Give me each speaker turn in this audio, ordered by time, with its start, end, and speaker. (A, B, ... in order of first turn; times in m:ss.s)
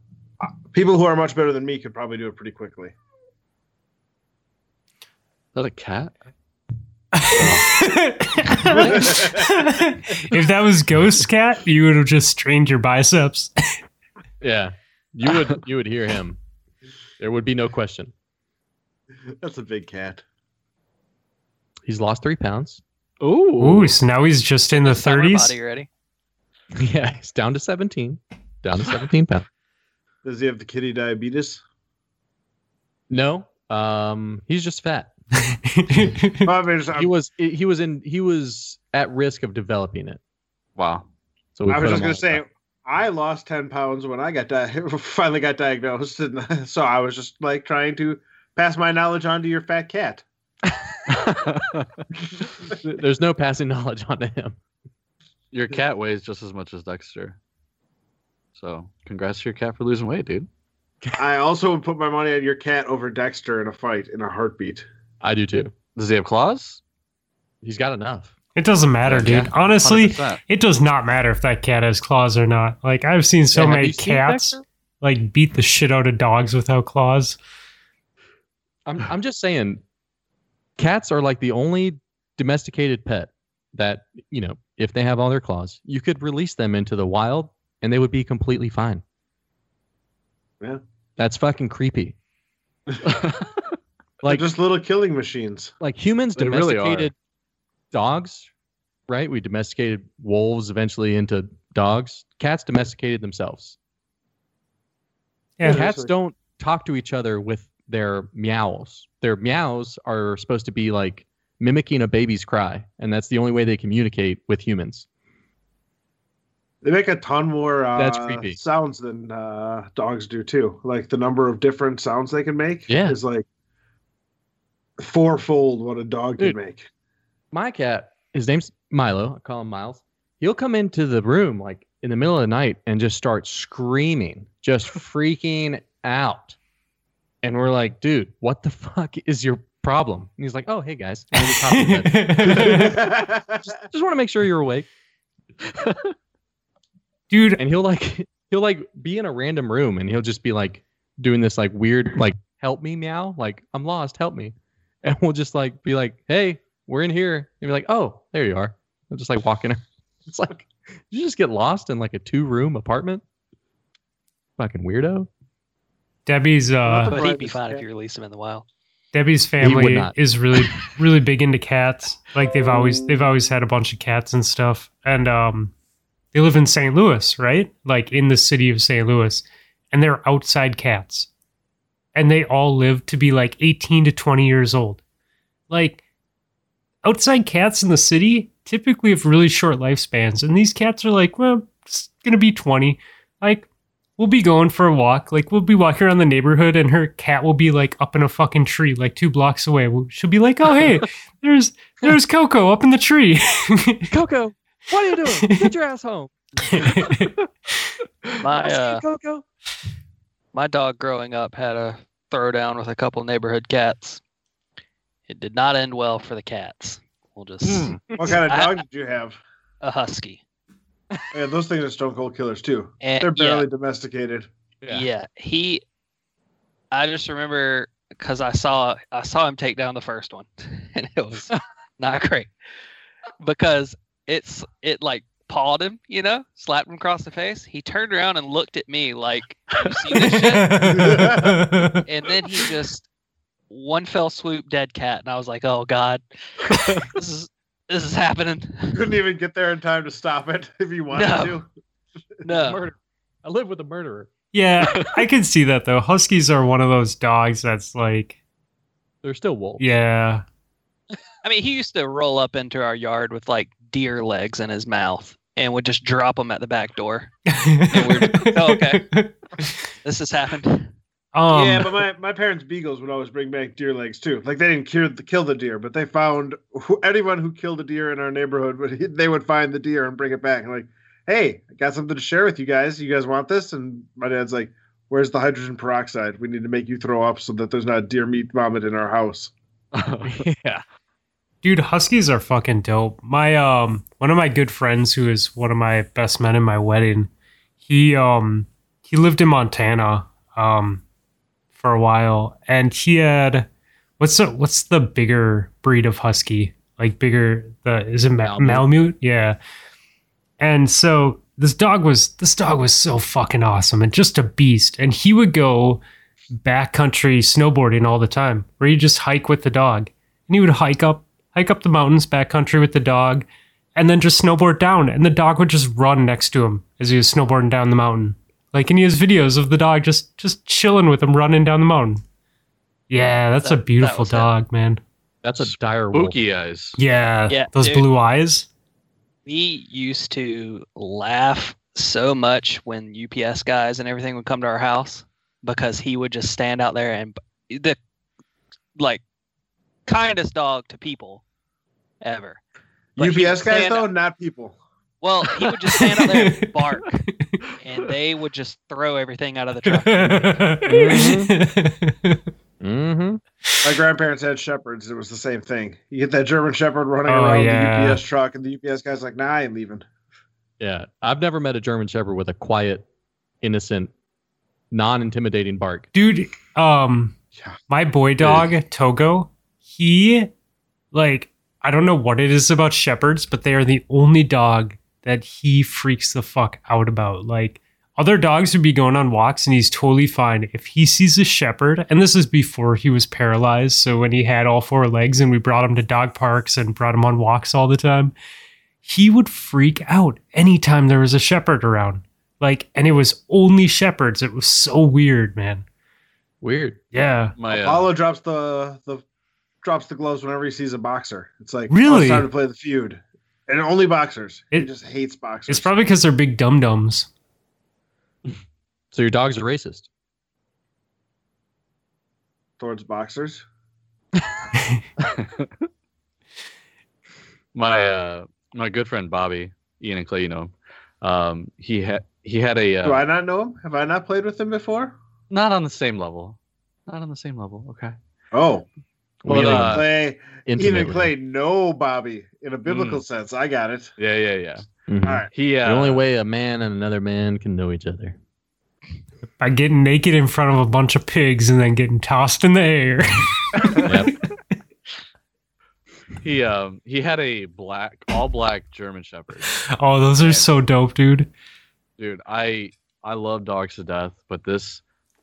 0:00.7-0:02.9 A
0:05.6-0:06.1 B
0:07.1-0:13.5 C
0:07.3-0:07.7 B
0:08.7-0:09.6 A
0:14.4-0:16.4 D
0:17.2-0:18.1 D
0:19.4-0:20.2 A
0:21.8-0:22.8 D
0:23.2-0:23.9 B
0:23.6-0:25.6 C
0:24.7-0:25.9 E
0:26.8-0:29.5 D
0:30.2-0:31.6 A
0:33.1-0:35.1 D
0:35.7-0:36.5 C
0:36.4-0:37.1 A
0:37.0-0:40.2 D
0:40.8-0:41.1 B
0:41.6-0:42.4 D
0:41.7-0:50.2 A
0:51.1-0:52.0 B
0:52.7-0:54.6 D
0:55.5-0:57.4 B
0:58.6-1:00.5 B
1:01.2-1:04.9 A
1:05.2-1:05.7 D
1:06.0-1:06.8 B
1:07.6-1:08.3 D
1:08.6-1:17.4 C
1:09.1-1:10.4 B
1:13.5-1:14.6 D
1:18.9-1:19.8 D
1:20.8-1:29.0 D
1:31.2-1:32.2 D
1:33.1-1:33.6 B
1:34.2-1:34.5 D
1:34.2-1:35.7 A
1:35.8-1:37.1 D
1:36.4-1:37.1 B
1:37.9-1:38.5 D
1:39.1-1:43.8 D
1:45.6-1:45.9 C
1:45.6-1:46.1 A
1:45.6-1:55.1 D
1:56.8-2:03.4 A
1:58.0-1:58.6 D
2:02.9-2:03.2 D
2:05.0-2:06.9 A
2:07.5-2:16.6 D
2:17.4-2:24.9 D
2:21.4-2:23.0 C
2:22.5-2:23.6 A
2:25.6-2:26.1 B
2:27.3-2:27.6 C
2:27.6-2:43.2 D
2:44.6-2:45.3 D
2:46.3-2:47.2 C
2:46.9-2:47.9 A
2:47.0-2:48.6 E
2:49.1-2:55.7 C
2:49.6-2:50.2 D
2:56.3-3:01.3 C
3:02.1-3:05.0 C
3:05.7-3:06.0 C
3:07.0-3:13.7 C
3:14.2-3:24.1 C
3:24.1-3:26.8 D
3:25.4-3:25.7 C
3:26.6-3:27.3 C
3:28.4-3:29.0 E
3:28.6-3:29.4 D
3:30.5-3:34.2 E
3:35.3-3:38.8 E
3:37.8-3:38.4 D
3:38.2-3:39.4 A
3:39.8-3:40.4 E
3:41.3-3:44.5 A
3:43.0-3:43.7 E
3:44.8-3:45.1 D
3:44.9-3:45.8 E
3:46.9-3:52.5 E
3:53.4-4:01.0 E
4:00.2-4:02.0 C
4:00.9-4:01.7 A
4:02.0-4:03.1 E
4:03.7-4:09.0 E
4:08.9-4:11.7 A
4:11.1-4:11.6 E
4:12.4-4:12.8 E
4:12.6-4:14.3 D
4:14.5-4:18.4 C
4:19.2-4:19.8 D
4:19.8-4:20.4 C
4:21.4-4:27.3 E
4:27.5-4:29.7 C
4:27.9-4:29.0 E
4:30.0-4:30.9 E
4:31.3-4:32.0 C
4:31.5-4:49.5 A
4:49.9-4:50.5 B
4:50.2-4:50.8 D
4:51.6-4:57.3 C
4:57.8-5:01.0 C
5:01.8-5:03.7 C
5:04.2-5:09.6 C
5:08.4-5:08.9 D
5:10.6-5:16.0 C
5:16.6-5:32.2 C
5:33.1-5:35.0 C
5:33.6-5:34.5 E
5:35.4-5:36.4 D
5:35.6-5:37.0 B
5:37.0-5:38.7 C
5:37.5-5:38.1 E
5:39.5-5:48.0 E
5:49.0-5:49.2 E
5:50.1-5:51.4 E
5:52.2-5:52.6 E
5:53.2-5:54.1 E
5:53.2-5:54.8 A
5:55.2-5:57.2 E
5:55.6-5:56.8 C
5:57.8-6:00.8 E
5:59.9-6:02.4 C
6:00.9-6:01.5 D
6:02.8-6:03.4 D
6:03.8-6:10.1 A
6:07.3-6:08.2 C
6:10.8-6:13.1 D
6:13.6-6:14.1 D
6:14.9-6:16.1 D
6:16.1-6:17.4 C
6:17.9-6:20.5 C
6:21.1-6:38.3 C
6:39.0-6:45.8 C
6:46.6-6:47.0 D
6:47.1-6:47.6 C
6:47.6-6:48.1 B
6:47.7-6:49.2 A
6:49.8-6:55.9 A
6:51.9-6:52.5 C
6:55.7-6:57.3 C
6:59.1-7:00.1 D
7:02.8-7:03.6 A
7:05.2-7:05.7 B
7:07.8-7:13.2 B
7:13.0-7:15.1 A
7:15.5-7:18.1 B
7:18.5-7:18.9 A
7:19.4-7:20.1 D
7:19.5-7:24.1 A
7:19.5-7:20.1 B
7:20.7-7:21.3 D
7:22.9-7:23.2 B
7:24.2-7:24.9 B
7:25.1-7:28.4 D
7:25.2-7:25.5 A
7:25.5-7:26.2 B
7:29.6-7:34.0 C
7:33.8-7:34.1 B
7:34.0-7:34.3 D
7:36.4-7:39.7 B
7:40.0-7:41.5 C
7:40.4-7:40.7 B
7:42.2-7:45.0 B